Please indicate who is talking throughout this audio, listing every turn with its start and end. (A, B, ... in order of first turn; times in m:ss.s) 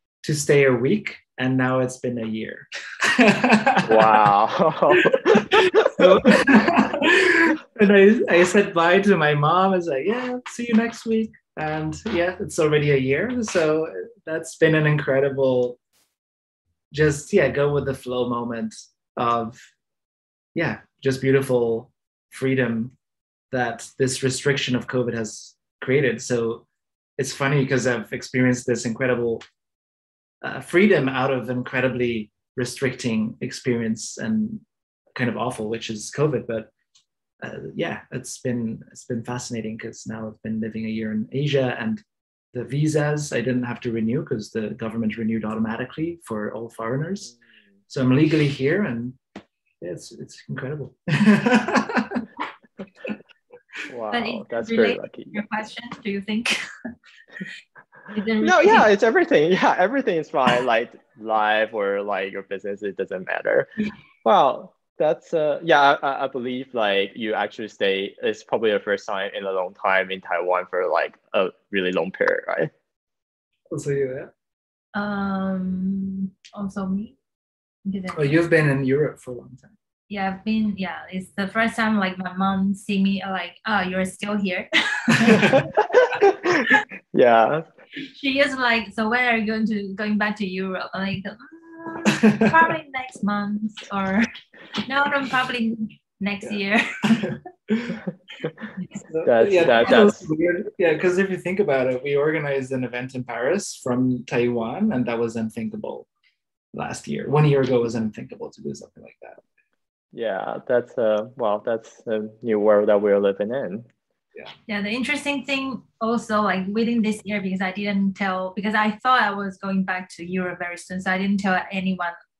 0:00.2-0:04.3 A
0:03.8-0:06.4 B
0:04.9-0:15.8 A
0:16.9-0:19.6 A
0:20.5-0:22.9 A
0:23.5-0:26.6 A
0:27.2-0:29.4 A
0:30.4-0:34.6 A
0:35.1-0:36.7 A
0:37.4-0:47.3 A
0:47.9-0:49.2 A
0:49.8-0:52.3 A
0:53.9-0:55.4 B
0:54.1-0:56.6 C
0:58.1-0:58.9 C
0:58.4-1:12.7 B
1:13.7-1:14.3 A
1:14.9-1:17.2 C
1:17.8-1:18.4 C
1:18.1-1:19.7 A
1:20.1-1:25.7 C
1:25.3-1:25.6 A
1:25.4-1:27.6 B
1:28.1-1:34.3 C
1:32.2-1:32.5 A
1:34.8-1:37.3 C
1:37.2-1:38.0 A
1:39.0-1:46.1 A
1:39.2-1:40.2 B
1:46.7-1:49.4 A
1:50.1-1:53.9 B
1:54.7-2:02.1 C